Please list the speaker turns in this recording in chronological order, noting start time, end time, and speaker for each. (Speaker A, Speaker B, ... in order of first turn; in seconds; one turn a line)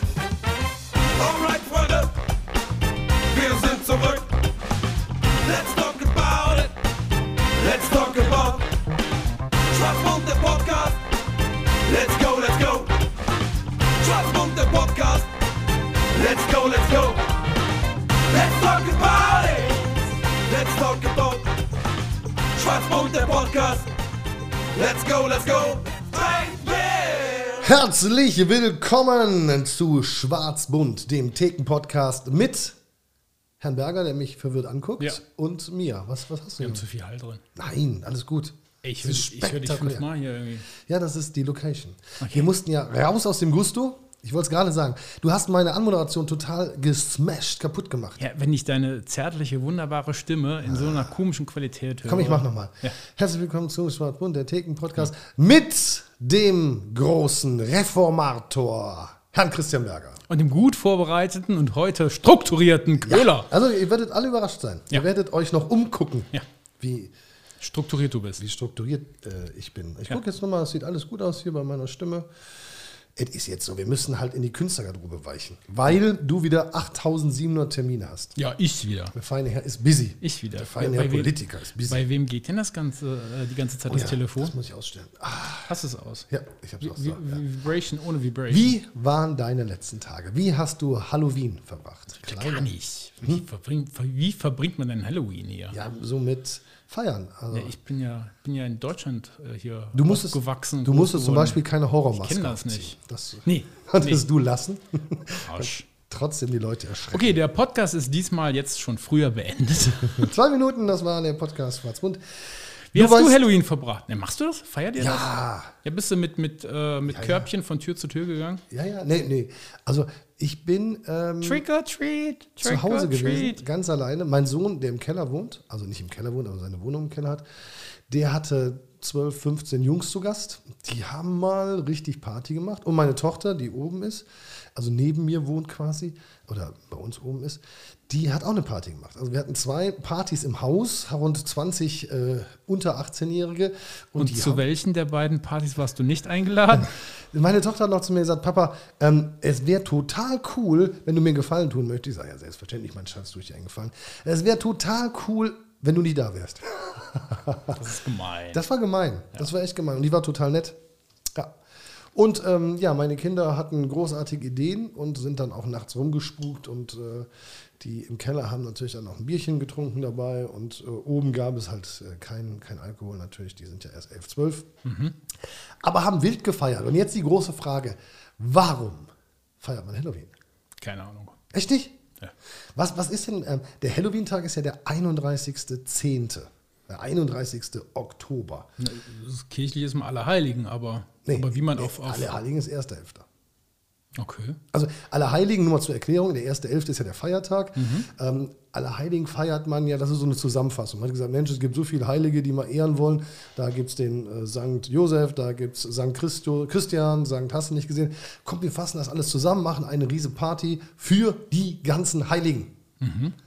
Speaker A: 1.1-2.1
Speaker A: 3.3-4.3
Speaker A: 5.4-6.7
Speaker A: 7.5-8.7
Speaker A: 9.7-11.0
Speaker A: 11.8-12.9
Speaker A: 14.0-15.3
Speaker A: 16.1-17.3
Speaker A: 18.3-21.5
Speaker A: 22.6-23.9
Speaker A: 24.7-27.6
Speaker B: 27.6-32.8
Speaker B: 33.6-36.8
Speaker C: 36.6-37.4
Speaker B: 37.5-40.0
Speaker C: 38.8-40.7
Speaker B: 40.7-48.2
Speaker C: 42.2-42.5
Speaker C: 48.2-53.0
Speaker B: 50.6-51.1
Speaker B: 52.0-60.2
Speaker C: 60.3-63.5
Speaker B: 63.0-67.1
Speaker C: 67.6-68.4
Speaker B: 68.4-72.3
Speaker B: 73.2-78.3
Speaker C: 78.3-79.1
Speaker B: 79.1-82.0
Speaker C: 80.2-84.5
Speaker B: 83.9-85.7
Speaker C: 85.7-86.3
Speaker B: 86.3-87.4
Speaker C: 86.8-88.8
Speaker B: 88.5-92.7
Speaker C: 92.2-95.8
Speaker B: 95.7-97.7
Speaker C: 97.5-104.2
Speaker B: 99.9-107.4
Speaker C: 105.3-105.9
Speaker C: 107.1-110.3
Speaker B: 110.1-113.4
Speaker C: 112.9-115.3
Speaker B: 115.0-115.7
Speaker C: 115.8-118.6
Speaker B: 117.1-117.5
Speaker B: 118.7-121.6
Speaker C: 121.4-123.6
Speaker B: 122.6-127.4
Speaker B: 128.1-144.6
Speaker C: 144.2-146.9
Speaker B: 146.7-157.8
Speaker C: 157.7-158.6
Speaker B: 158.5-160.8
Speaker B: 162.1-174.7
Speaker C: 174.8-175.2
Speaker B: 175.8-180.3
Speaker C: 180.8-181.4
Speaker B: 181.5-182.0
Speaker B: 182.7-188.7
Speaker C: 188.8-192.3
Speaker B: 191.2-193.3
Speaker C: 194.2-194.6
Speaker B: 194.7-212.8
Speaker C: 197.8-198.1
Speaker C: 213.0-213.3